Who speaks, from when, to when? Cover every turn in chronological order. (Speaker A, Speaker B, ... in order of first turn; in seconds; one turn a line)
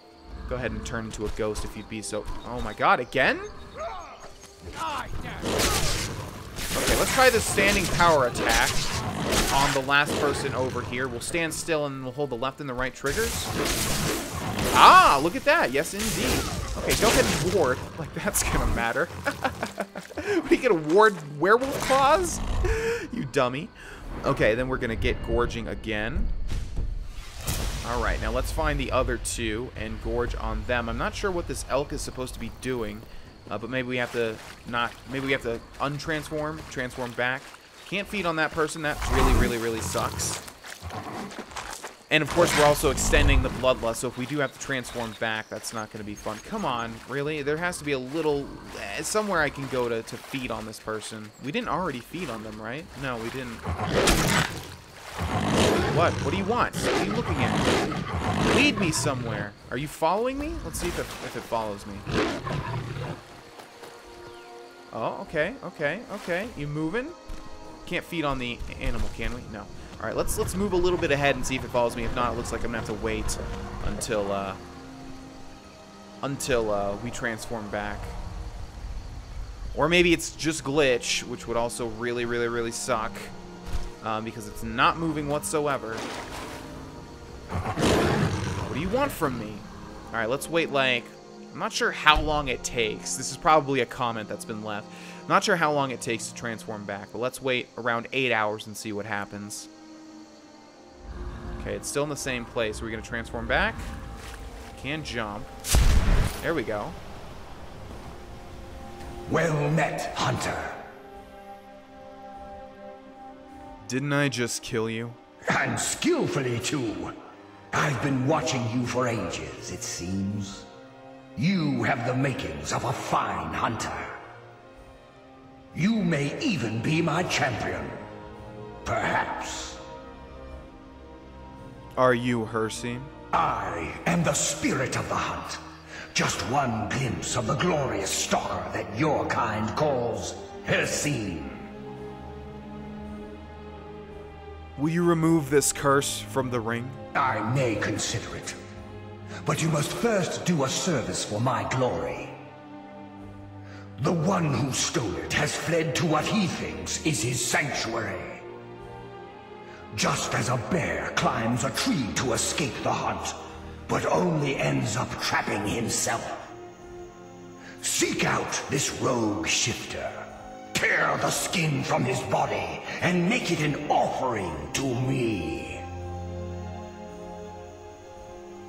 Speaker A: 0.5-3.5
Speaker A: 6.7-8.9
Speaker A: 9.5-13.5
Speaker A: 14.7-26.3
Speaker A: 27.8-40.4
Speaker A: 42.1-53.6
Speaker A: 55.9-57.8
Speaker A: 58.4-62.1
Speaker A: 64.9-67.2
Speaker A: 67.8-74.6
Speaker A: 76.2-78.2
Speaker A: 79.7-83.3
Speaker A: 84.0-86.0
Speaker A: 88.6-99.7
Speaker A: 101.6-103.9
Speaker A: 104.7-105.5
Speaker A: 106.4-107.0
Speaker B: 109.3-110.8
Speaker A: 113.8-115.2
Speaker B: 115.5-117.1
Speaker B: 117.7-120.7
Speaker B: 121.3-124.1
Speaker B: 125.7-128.0
Speaker B: 128.8-129.8
Speaker A: 131.9-133.1
Speaker B: 133.3-135.6
Speaker B: 136.1-141.7
Speaker A: 144.8-147.0
Speaker B: 147.1-148.6
Speaker B: 149.4-152.4
Speaker B: 154.0-158.4
Speaker B: 159.9-166.5
Speaker B: 167.8-175.8